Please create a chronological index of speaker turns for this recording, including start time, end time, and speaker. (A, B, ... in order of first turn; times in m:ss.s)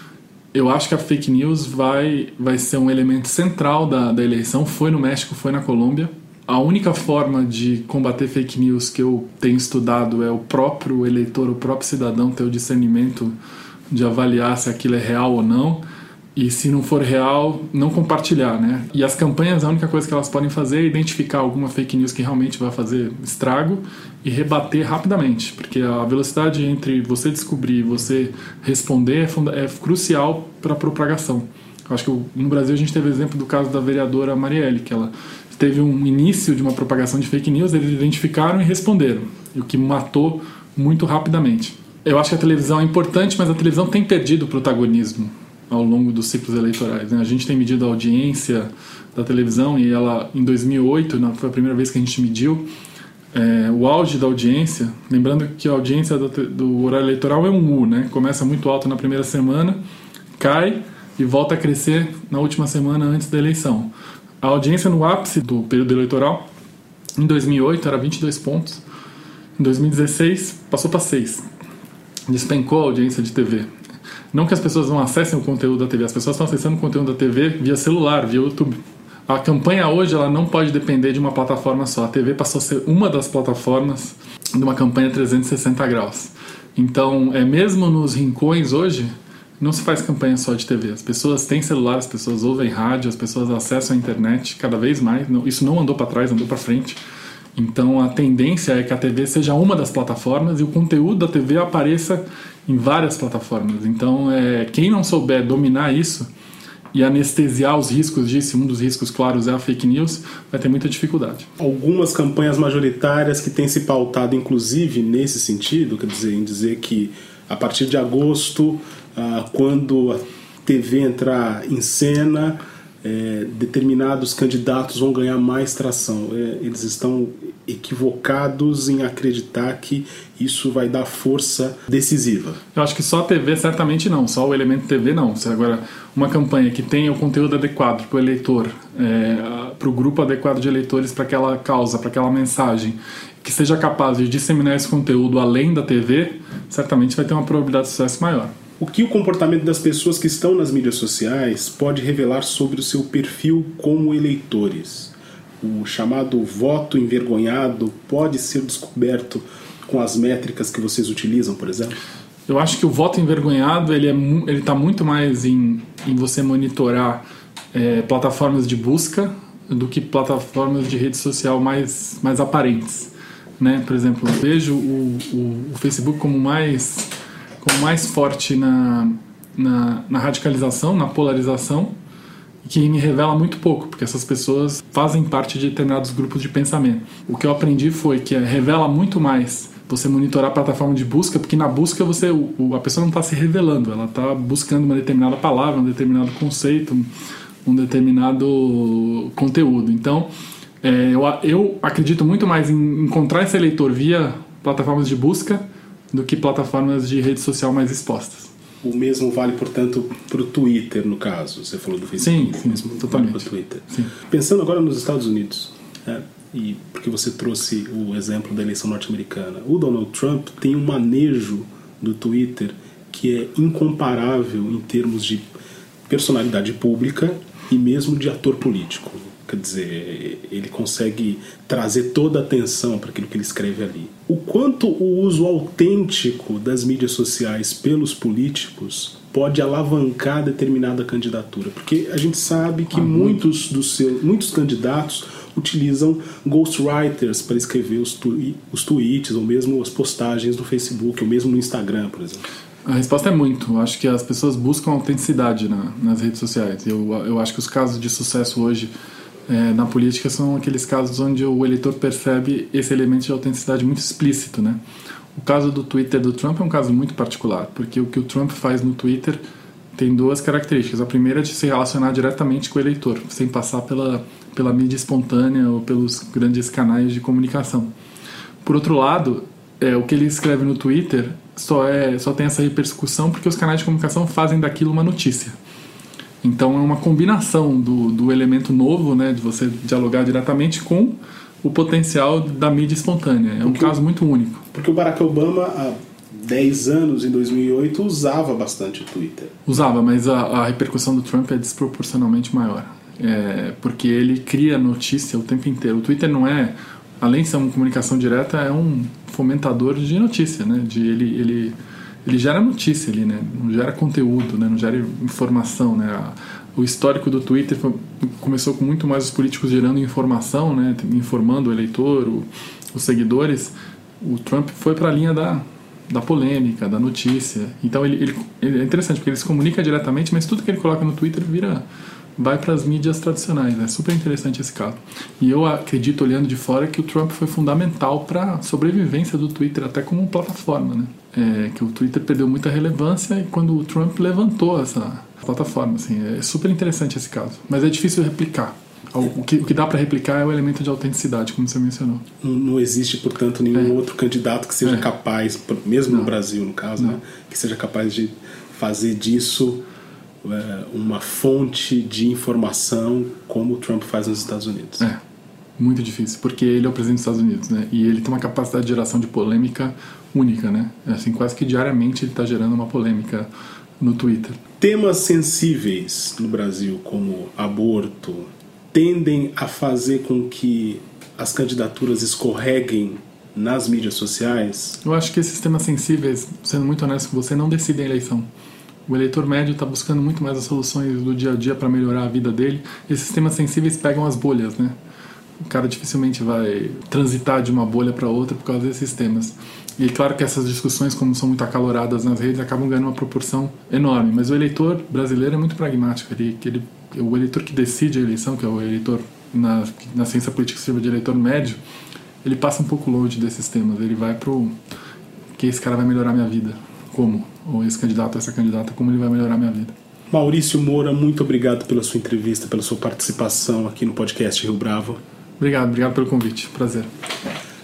0:00.5-0:13.3 A
0:13.9-0:15.8 A
0:16.3-0:52.7 A
0:53.3-0:59.8 A
1:00.4-1:03.9 A
1:04.4-1:06.4 A
1:07.2-1:08.8 A
1:09.6-1:11.4 A
1:12.3-1:13.7 A
1:14.3-1:37.0 A
1:37.6-1:46.3 A
1:46.9-1:51.5 A
1:51.6-2:12.6 B
2:12.7-2:28.5 A
2:28.8-2:42.0 B
2:42.5-2:57.1 A
2:57.6-3:01.9 A
3:02.6-3:17.1 A
3:17.6-3:20.3 A
3:20.8-3:28.5 A
3:28.8-3:45.4 B
3:32.2-3:34.1 A
3:46.1-4:12.4 B
4:02.9-4:03.4 A
4:12.8-4:18.9 A
4:19.5-4:24.8 A
4:25.3-4:29.4 A
4:29.9-4:37.9 A
4:38.6-4:45.6 A
4:46.4-4:54.6 A
4:53.6-4:53.9 B
4:54.7-4:59.5 B
4:59.6-5:31.8 A
5:32.4-5:52.2 A
5:52.4-5:59.8 B
6:00.4-6:05.1 B
6:05.8-6:14.6 A
6:14.8-6:25.0 B
6:25.0-6:28.5 A
6:29.1-6:34.9 A
6:35.6-6:51.8 A
6:52.4-6:54.7 A
6:55.6-6:59.9 A
7:00.3-7:05.2 B
7:05.6-7:07.1 A